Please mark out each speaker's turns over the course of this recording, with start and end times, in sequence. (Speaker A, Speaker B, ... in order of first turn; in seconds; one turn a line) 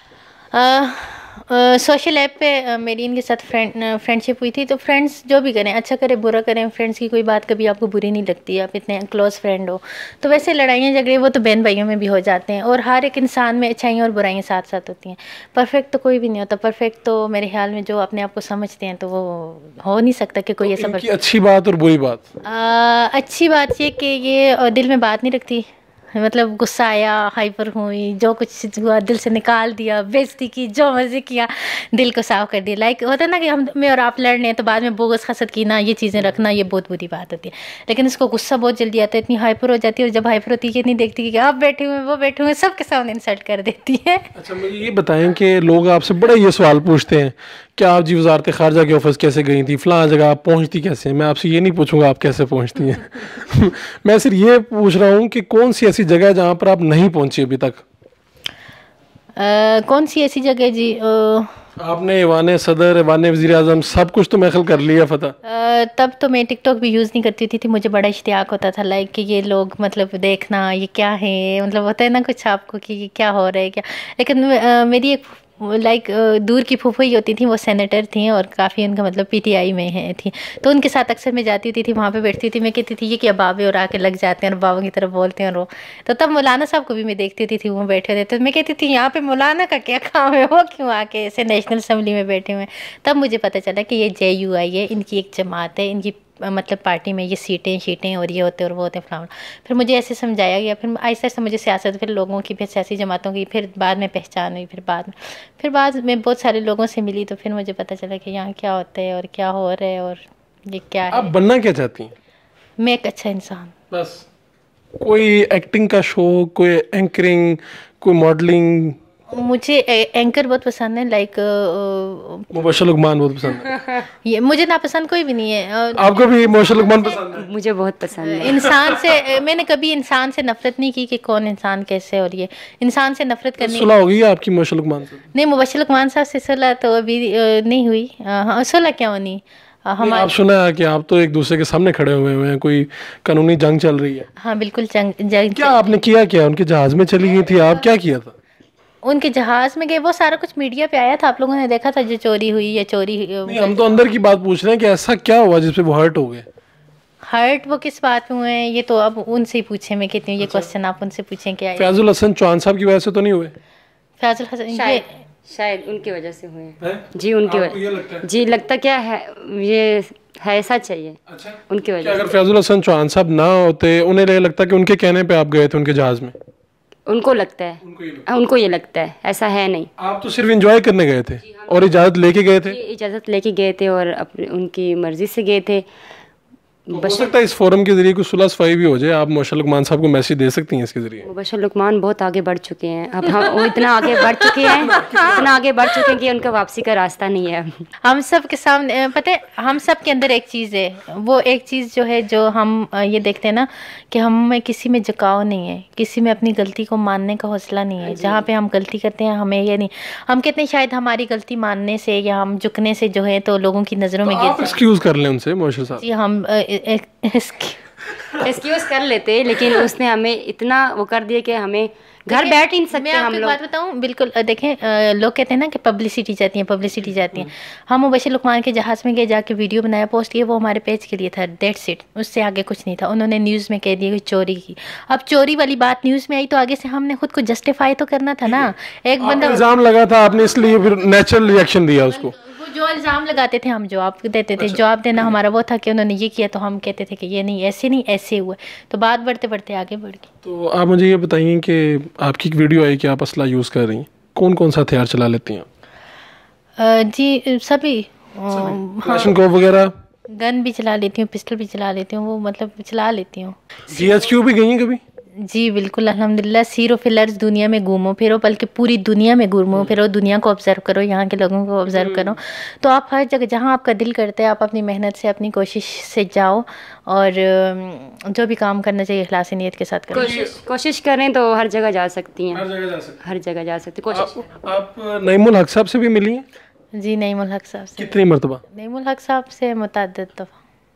Speaker A: 0.5-21.1
Speaker B: 20.6-22.2
Speaker A: 22.4-44.3
Speaker B: 44.4-57.8
Speaker A: 59.4-61.5
Speaker B: 61.8-65.3
Speaker A: 65.4-111.3
Speaker B: 111.1-112.1
Speaker A: 112.8-113.7
Speaker B: 113.9-114.2
Speaker B: 115.0-119.0
Speaker A: 119.3-122.5
Speaker B: 122.5-123.8
Speaker A: 124.2-127.2
Speaker B: 125.9-127.5
Speaker C: 127.3-128.6
Speaker A: 128.2-133.9
Speaker B: 128.4-128.7
Speaker B: 133.6-135.3
Speaker A: 135.3-140.3
Speaker B: 140.0-144.3
Speaker A: 144.4-146.0
Speaker B: 145.5-148.3
Speaker A: 147.3-147.9
Speaker A: 149.0-154.0
Speaker B: 153.4-156.4
Speaker A: 157.3-162.0
Speaker B: 160.4-160.7
Speaker B: 161.8-163.5
Speaker A: 164.2-165.1
Speaker C: 164.7-172.2
Speaker B: 166.8-168.2
Speaker B: 171.3-176.3
Speaker C: 177.1-179.9
Speaker B: 177.8-178.2
Speaker B: 180.0-182.8
Speaker C: 182.7-185.8
Speaker C: 186.9-187.3
Speaker B: 186.9-191.2
Speaker C: 191.2-197.8
Speaker B: 194.7-195.5
Speaker A: 198.0-214.8
Speaker B: 214.2-216.0
Speaker A: 216.0-217.8
Speaker C: 218.4-223.6
Speaker A: 222.3-239.6
Speaker B: 238.4-242.3
Speaker A: 240.5-240.9
Speaker A: 242.1-250.3
Speaker B: 244.6-245.3
Speaker B: 250.4-255.7
Speaker A: 256.8-259.4
Speaker B: 258.5-259.9
Speaker A: 260.3-263.6
Speaker B: 263.9-265.0
Speaker A: 265.4-280.5
Speaker C: 271.9-272.3
Speaker B: 280.1-280.5
Speaker C: 280.1-282.6
Speaker B: 282.5-283.2
Speaker C: 283.2-284.5
Speaker B: 284.1-286.4
Speaker A: 286.9-290.5
Speaker B: 288.0-288.6